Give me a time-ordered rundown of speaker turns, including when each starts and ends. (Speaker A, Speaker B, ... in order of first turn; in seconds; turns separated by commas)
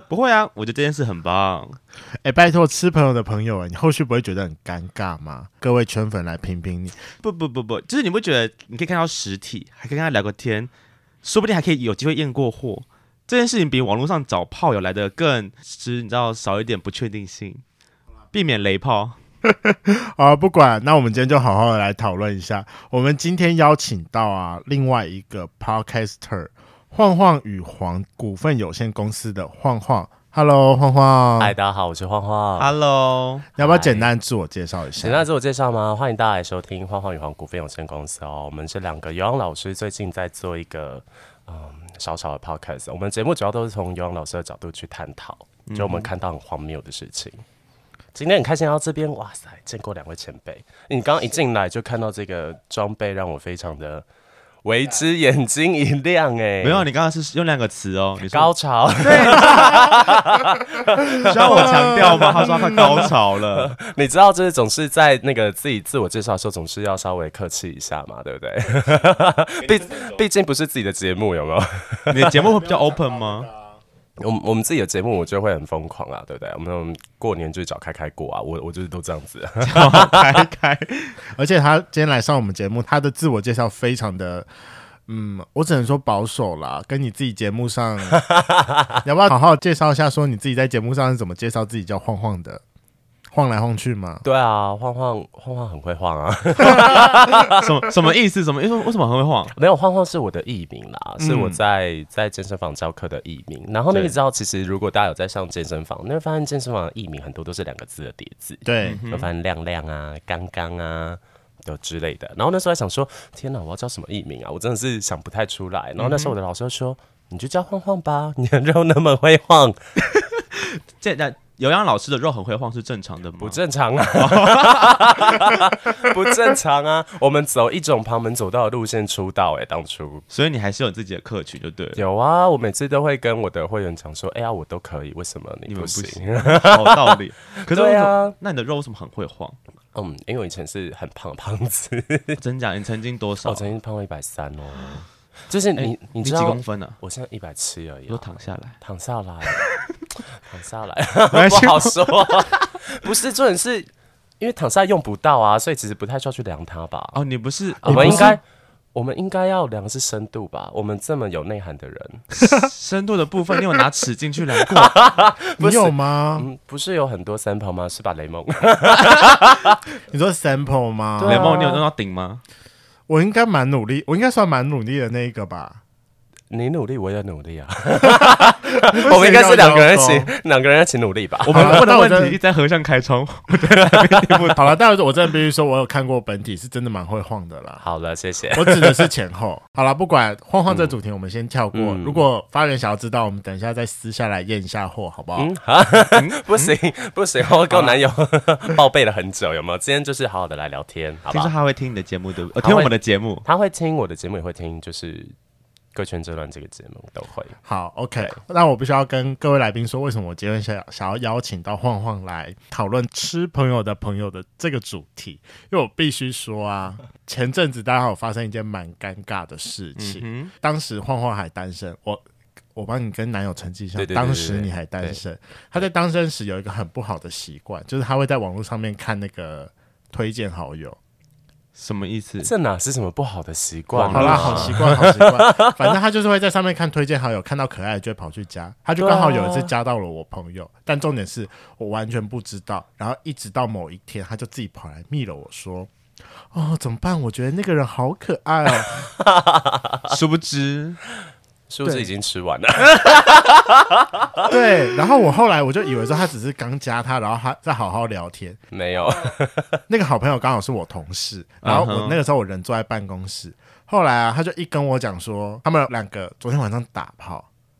Speaker A: 0.1-1.8, Speaker B: 2.2-7.0, Speaker A: 7.2-10.7, Speaker A: 11.2-17.6, Speaker A: 18.3-19.2, Speaker B: 19.4-31.5, Speaker C: 31.4-32.7, Speaker A: 32.6-33.5, Speaker B: 33.6-35.2, Speaker C: 33.6-34.1, Speaker C: 35.0-47.4, Speaker A: 45.7-46.1, Speaker C: 48.1-54.1, Speaker C: 54.6-56.9, Speaker A: 56.6-59.9, Speaker C: 58.2-72.4, Speaker A: 61.2-63.8, Speaker B: 61.5-63.1, Speaker A: 72.1-73.5, Speaker C: 74.2-80.3, Speaker A: 79.6-81.2, Speaker B: 81.3-84.5, Speaker B: 85.1-88.2, Speaker C: 88.1-89.0, Speaker B: 89.0-92.6, Speaker B: 93.3-94.2, Speaker C: 94.2-97.5, Speaker A: 97.0-99.5, Speaker C: 99.5-119.8, Speaker B: 101.2-101.6, Speaker B: 108.6-109.0, Speaker A: 108.8-109.3, Speaker A: 116.0-116.3, Speaker A: 120.1-123.6, Speaker C: 123.4-130.2, Speaker A: 124.2-125.5, Speaker A: 130.3-132.0, Speaker C: 132.0-137.2, Speaker A: 135.7-139.6, Speaker C: 137.7-138.4, Speaker C: 139.9-142.4, Speaker A: 142.4-143.7, Speaker C: 143.4-148.3, Speaker A: 145.8-147.0, Speaker A: 148.1-148.8, Speaker C: 148.8-149.6, Speaker C: 150.4-153.9, Speaker A: 151.3-152.6, Speaker C: 154.4-157.2, Speaker A: 157.1-158.4, Speaker B: 157.8-158.4, Speaker C: 157.8-158.4, Speaker C: 158.9-162.3, Speaker A: 162.5-164.9, Speaker C: 164.8-169.8, Speaker B: 165.6-166.5, Speaker B: 170.1-171.7, Speaker C: 171.2-171.8, Speaker A: 171.2-172.4, Speaker B: 173.1-175.8, Speaker C: 176.5-181.9, Speaker B: 178.1-180.3, Speaker A: 181.4-184.7, Speaker B: 181.5-182.4, Speaker C: 183.8-184.4, Speaker B: 184.6-187.8, Speaker C: 187.8-189.1, Speaker B: 188.6-195.5, Speaker C: 191.7-192.2, Speaker C: 195.3-201.5, Speaker A: 196.1-196.8, Speaker A: 201.3-203.4, Speaker C: 202.6-205.3, Speaker C: 205.9-207.6, Speaker B: 207.7-222.2, Speaker A: 220.0-220.5, Speaker B: 222.8-231.0, Speaker C: 224.0-225.2, Speaker A: 231.8-232.5, Speaker C: 232.4-235.9, Speaker A: 233.9-234.8, Speaker B: 234.0-245.9, Speaker C: 239.0-239.7, Speaker B: 246.5-249.1, Speaker C: 249.0-250.1, Speaker A: 250.1-251.0, Speaker C: 251.7-254.5, Speaker A: 251.8-252.1, Speaker B: 254.4-258.6, Speaker C: 258.7-259.8, Speaker B: 259.9-267.5, Speaker A: 261.6-262.2